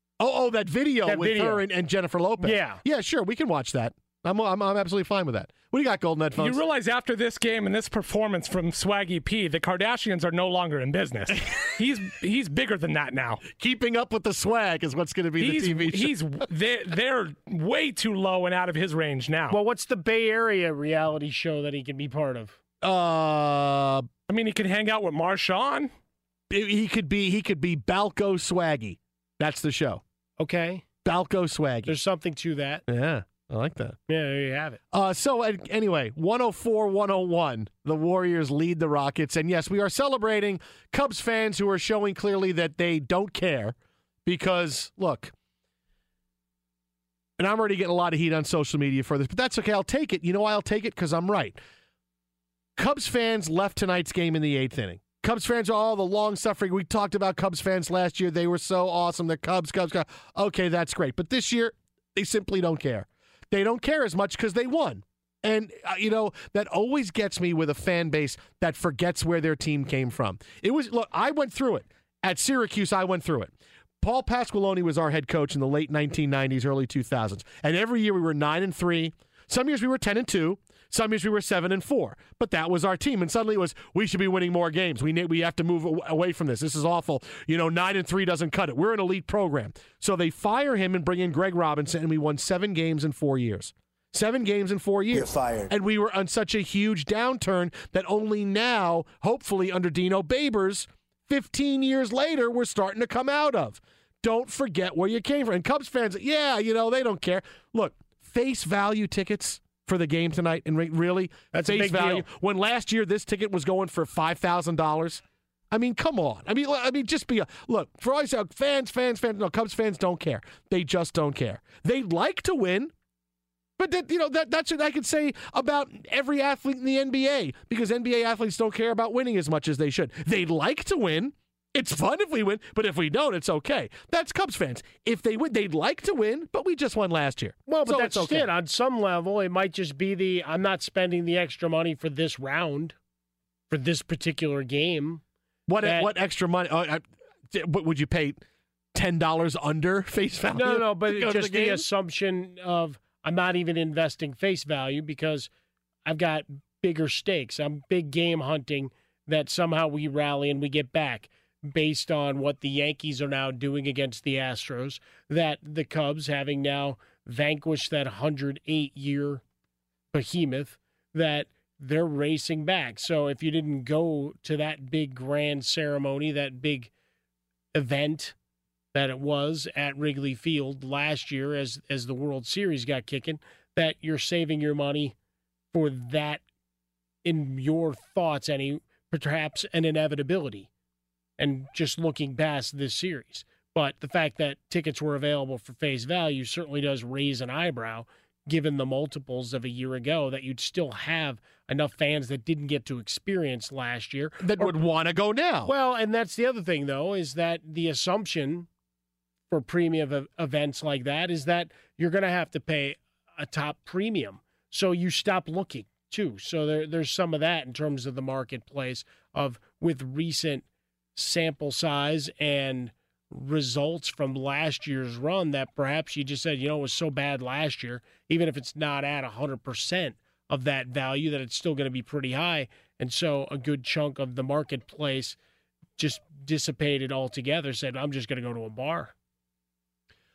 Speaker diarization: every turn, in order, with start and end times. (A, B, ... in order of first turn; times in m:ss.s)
0:00.2-0:06.6 A
0:01.1-0:01.6 B
0:02.4-0:02.8 B
0:06.4-0:13.4 C
0:13.5-0:16.2 A
0:15.4-0:19.6 C
0:19.5-0:22.6 B
0:22.8-0:24.1 A
0:24.3-0:25.9 C
0:26.5-0:30.0 A
0:30.4-0:30.8 B
0:31.0-0:32.0 A
0:31.9-0:32.8 B
0:32.9-0:34.0 A
0:34.1-0:34.8 B
0:34.9-0:45.3 A
0:47.4-0:51.6 A
0:52.8-2:02.9 A
1:51.5-1:52.2 B
2:03.8-2:18.5 A
2:17.7-2:23.0 B
2:23.7-2:25.2 B
2:25.7-2:28.4 A
2:25.8-2:26.1 B
2:28.9-2:31.9 A
2:30.5-2:35.5 B
2:36.0-2:49.4 B
2:50.1-2:56.9 B
2:57.7-2:58.4 B
2:58.9-3:05.2 B
3:05.7-3:06.4 B
3:07.2-3:10.7 B
3:11.4-3:24.7 B
3:24.4-3:25.7 A
3:25.6-3:28.7 B
3:29.5-3:55.4 B
3:56.0-3:59.1 B